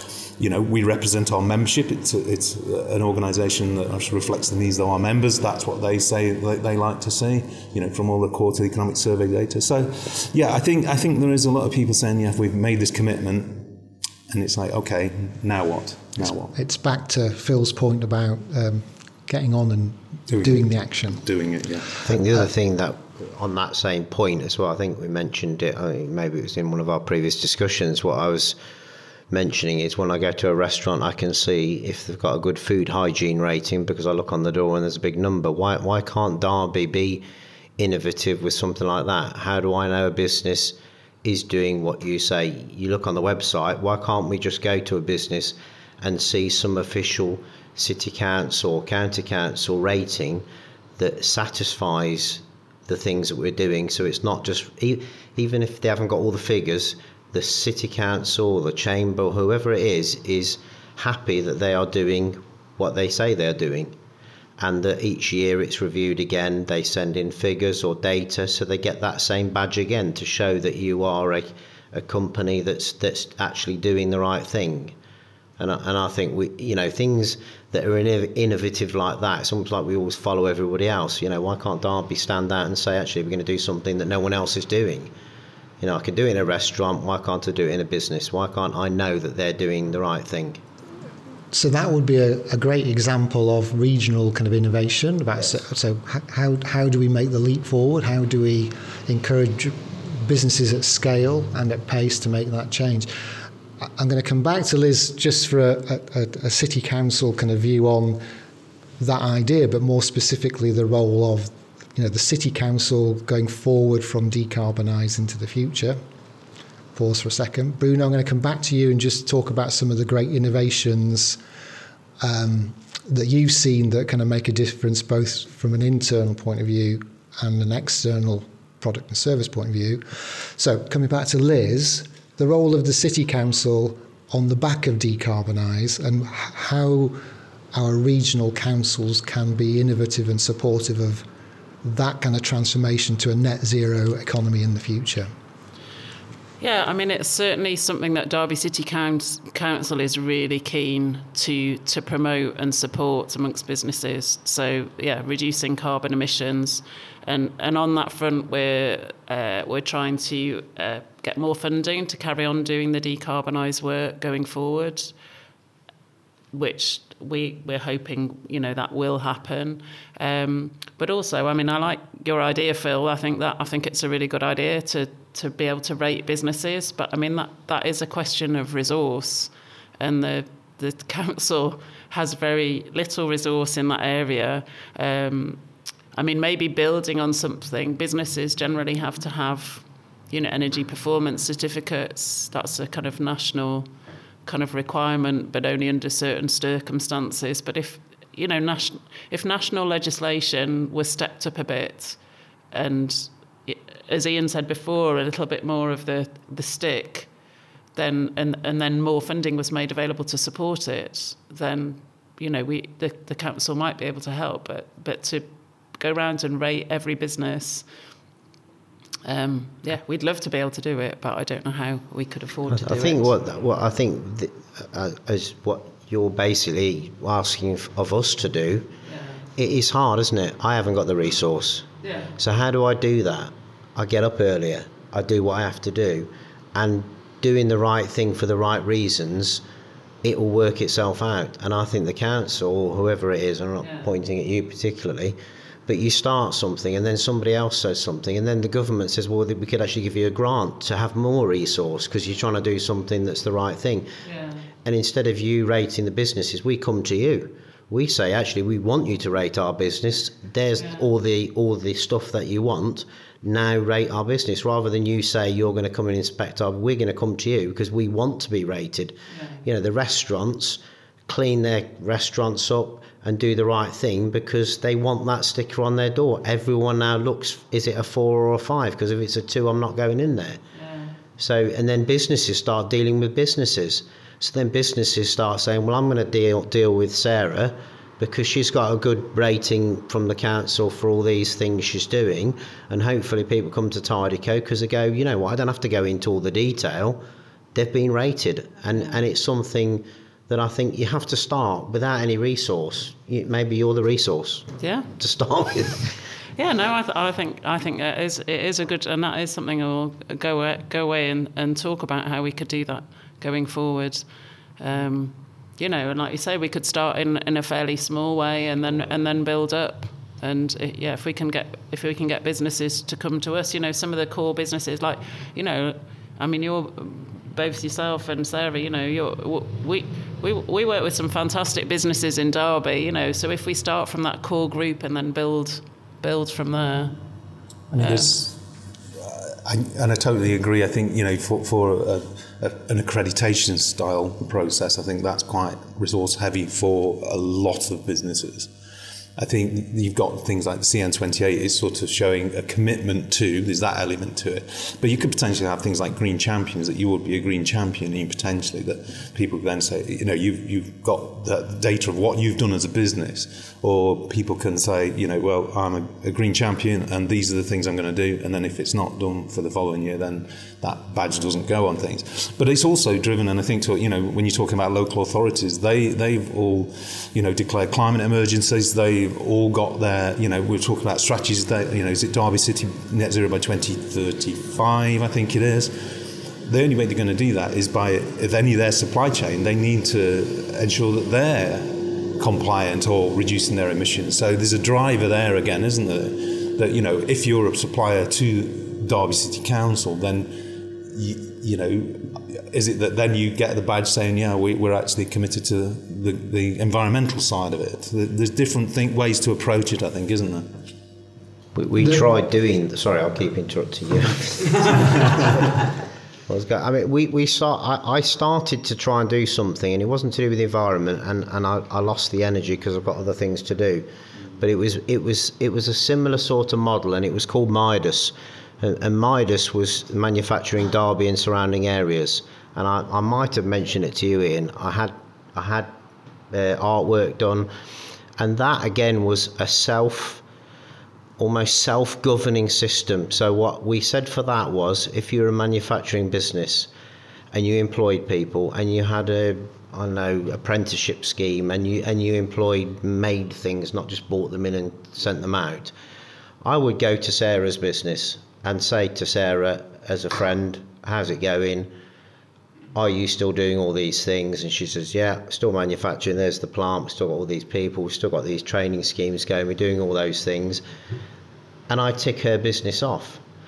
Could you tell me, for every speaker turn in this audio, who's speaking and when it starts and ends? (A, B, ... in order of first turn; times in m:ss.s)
0:00.4-0:13.8 A
0:14.3-0:16.5 A
0:16.6-0:21.3 B
0:20.3-0:22.1 A
0:22.0-0:28.6 C
0:29.3-0:37.2 C
0:37.8-0:50.4 C
0:51.0-1:03.9 C
1:04.6-1:14.9 C
1:15.6-1:25.1 C
1:25.8-1:30.6 C
1:31.5-1:43.1 B
1:43.8-1:48.2 B
1:49.0-1:56.0 B
1:57.0-2:01.4 B
2:02.2-2:17.2 B
2:17.7-2:21.3 B
2:21.8-2:25.3 B
2:26.6-2:45.2 D
2:46.5-3:05.6 D
3:06.2-3:13.9 D
3:14.4-3:22.2 D
3:22.7-3:27.3 D
3:28.0-3:37.9 D
3:39.2-3:43.4 D
3:42.7-3:48.9 C
3:49.1-3:49.4 D
3:49.6-3:51.9 C
3:52.0-3:52.3 D
3:52.4-3:59.6 C
4:00.2-4:14.1 C
4:03.8-4:04.1 D
4:14.2-4:14.7 D
4:14.8-4:40.6 C
4:20.8-4:21.0 D
4:29.3-4:29.6 D
4:40.7-4:41.1 D
4:41.4-4:57.2 C
4:57.8-5:06.1 C
4:58.9-4:59.2 D
5:04.8-5:05.1 D
5:06.6-5:14.3 D
5:14.8-5:37.2 D
5:37.9-5:38.6 A
5:38.0-5:38.4 D
5:39.2-5:48.7 A
5:49.4-6:50.7 A
6:51.8-6:55.3 C
6:52.0-6:52.2 B
6:56.5-7:04.1 C
7:04.6-7:15.9 C
7:16.5-7:17.7 C
7:18.4-7:20.4 C
7:21.4-7:26.9 C
7:27.5-7:35.9 C
7:36.6-7:41.9 C
7:43.0-7:50.8 C
7:51.9-7:53.4 C